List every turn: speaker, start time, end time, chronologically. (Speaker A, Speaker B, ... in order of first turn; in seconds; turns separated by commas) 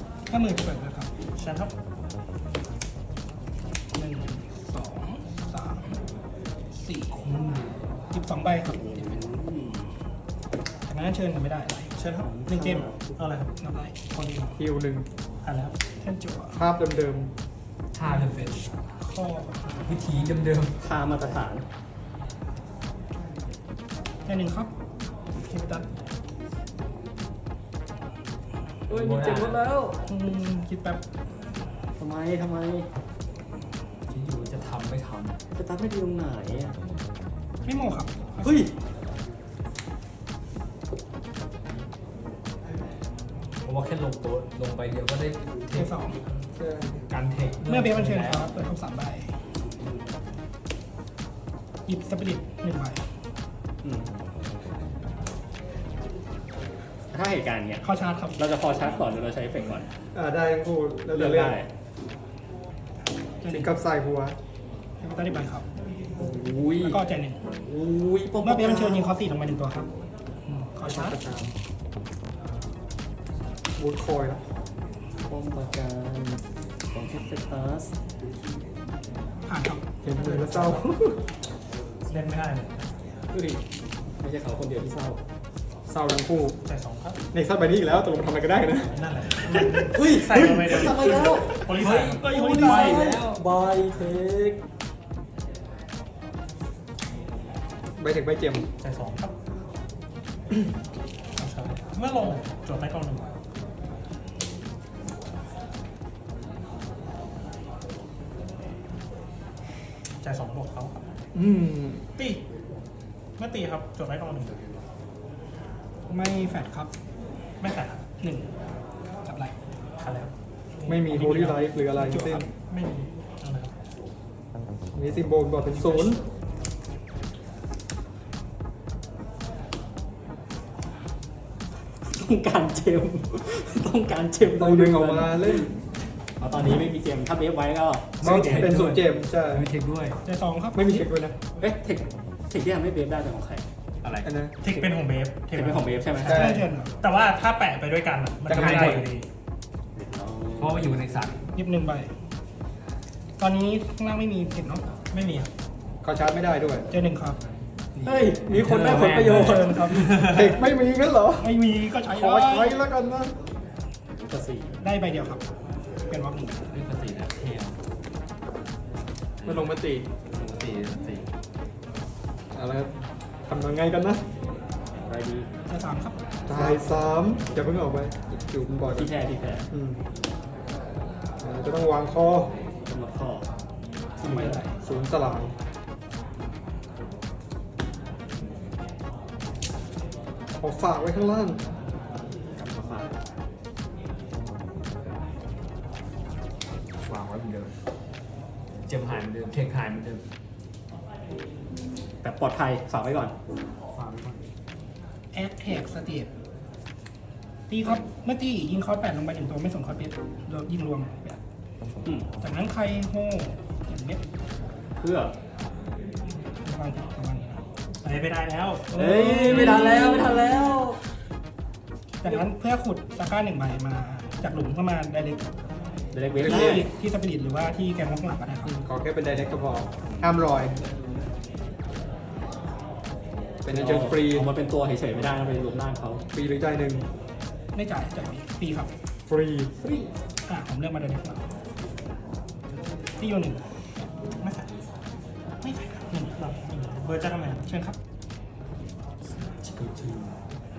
Speaker A: 0.3-1.1, Speaker B: 1.4-1.7, Speaker A: 3.9-6.0, Speaker A: 6.7-7.3, Speaker A: 8.1-9.4, Speaker C: 8.7-9.9, Speaker A: 10.9-11.9, Speaker B: 12.0-12.3, Speaker C: 12.2-13.1, Speaker A: 12.5-12.9, Speaker B: 13.2-13.5, Speaker A: 13.6-13.9, Speaker B: 14.1-14.6, Speaker D: 14.6-15.1, Speaker B: 15.4-15.7, Speaker A: 16.0-16.6, Speaker D: 16.5-17.3, Speaker E: 17.9-18.7, Speaker A: 19.0-19.9, Speaker E: 19.8-20.7, Speaker C: 20.8-21.6, Speaker A: 24.2-24.7, Speaker A: 25.4-25.9, Speaker C: 28.9-30.0, Speaker E: 28.9-29.6, Speaker A: 30.1-31.0, Speaker C: 32.0-32.9, Speaker E: 34.1-35.4, Speaker C: 35.6-36.8, Speaker A: 37.6-38.7, Speaker C: 38.4-38.7, Speaker E: 43.6-45.9, Speaker A: 45.7-46.2, Speaker D: 46.6-47.0, Speaker E: 47.1-48.5, Speaker A: 47.6-49.4, Speaker A: 51.9-53.0, Speaker C: 53.8-54.1, Speaker C: 57.1-57.8, Speaker A: 57.8-58.4, Speaker C: 58.4-59.9, Speaker D: 60.1-61.6, Speaker C: 61.1-61.7, Speaker A: 63.4-63.7, Speaker D: 63.5-64.3, Speaker A: 65.0-65.7, Speaker C: 66.2-67.0, Speaker A: 66.8-67.4, Speaker C: 67.6-69.1, Speaker A: 68.4-69.9, Speaker A: 70.7-71.2, Speaker D: 70.8-71.5, Speaker D: 73.8-74.4, Speaker C: 75.3-77.9, Speaker A: 79.5-81.1, Speaker D: 80.0-80.9, Speaker B: 82.1-82.9, Speaker C: 84.2-85.2, Speaker D: 85.9-86.5, Speaker B: 86.6-87.2, Speaker D: 87.3-88.9, Speaker B: 88.9-93.0, Speaker A: 89.5-89.8, Speaker C: 89.8-94.6, Speaker A: 91.0-91.7, Speaker E: 91.8-93.4, Speaker A: 92.2-93.0, Speaker D: 98.0-98.7, Speaker B: 98.8-99.3, Speaker B: 101.4-103.3, Speaker B: 110.2-111.0, Speaker D: 111.3-112.0, Speaker B: 113.4-114.8, Speaker A: 116.1-116.9, Speaker B: 117.6-118.0, Speaker A: 118.2-118.5, Speaker A: 119.2-119.5, Speaker B: 120.0-121.3, Speaker D: 120.8-122.5, Speaker A: 121.1-122.5, Speaker B: 122.7-123.8, Speaker D: 124.9-126.2, Speaker A: 125.8-126.0, Speaker C: 132.0-135.7, Speaker D: 134.4-135.7, Speaker C: 136.4-138.6, Speaker E: 138.2-140.2, Speaker D: 138.2-139.7, Speaker A: 140.2-141.0, Speaker D: 140.7-141.3, Speaker C: 141.6-143.6, Speaker E: 144.0-144.3, Speaker D: 144.2-144.7, Speaker B: 144.6-149.3, Speaker C: 145.5-146.6, Speaker D: 146.2-146.7, Speaker A: 146.2-146.9, Speaker D: 148.5-149.1, Speaker E: 148.5-149.0, Speaker C: 149.9-151.0, Speaker E: 150.6-151.4, Speaker A: 151.5-152.1, Speaker A: 153.4-154.8, Speaker B: 155.1-155.5, Speaker D: 156.0-156.9, Speaker A: 156.9-157.4, Speaker E: 157.9-160.3, Speaker C: 158.0-159.9, Speaker A: 159.2-160.4, Speaker D: 160.1-161.5, Speaker A: 161.4-162.8, Speaker D: 162.1-163.3, Speaker C: 164.2-164.7, Speaker A: 164.8-165.4, Speaker A: 166.1-166.6, Speaker E: 166.7-167.8, Speaker E: 169.4-169.7, Speaker D: 169.4-170.1, Speaker E: 170.3-171.2, Speaker D: 172.5-172.9, Speaker D: 173.5-174.2, Speaker C: 175.1-175.5, Speaker A: 175.7-176.2, Speaker D: 176.5-179.1, Speaker C: 178.8-179.7, Speaker D: 179.7-180.0, Speaker D: 181.4-182.5, Speaker C: 182.9-183.5, Speaker A: 184.2-184.8, Speaker C: 184.2-184.6, Speaker D: 184.8-185.5, Speaker D: 190.6-191.6, Speaker C: 192.6-193.1, Speaker E: 197.0-197.7, Speaker E: 198.9-200.2, Speaker C: 202.2-203.3, Speaker E: 203.9-204.4, Speaker A: 205.3-206.3, Speaker A: 207.7-211.4, Speaker A: 212.4-214.2, Speaker C: 214.9-215.3, Speaker A: 216.6-217.6, Speaker B: 218.0-219.0, Speaker C: 218.9-221.0, Speaker A: 219.0-220.4, Speaker E: 219.3-220.2, Speaker A: 222.2-225.4, Speaker C: 226.1-226.9, Speaker A: 226.4-228.7, Speaker D: 226.5-226.7, Speaker D: 228.6-230.7, Speaker D: 233.6-234.5, Speaker C: 233.7-236.2, Speaker D: 236.3-237.1, Speaker A: 237.7-238.9, Speaker D: 239.3-239.7, Speaker C: 239.8-240.1, Speaker A: 240.4-241.4, Speaker A: 243.2-243.7, Speaker B: 244.4-244.7, Speaker A: 245.6-246.4, Speaker B: 246.3-247.7, Speaker A: 247.6-248.0, Speaker E: 249.4-250.4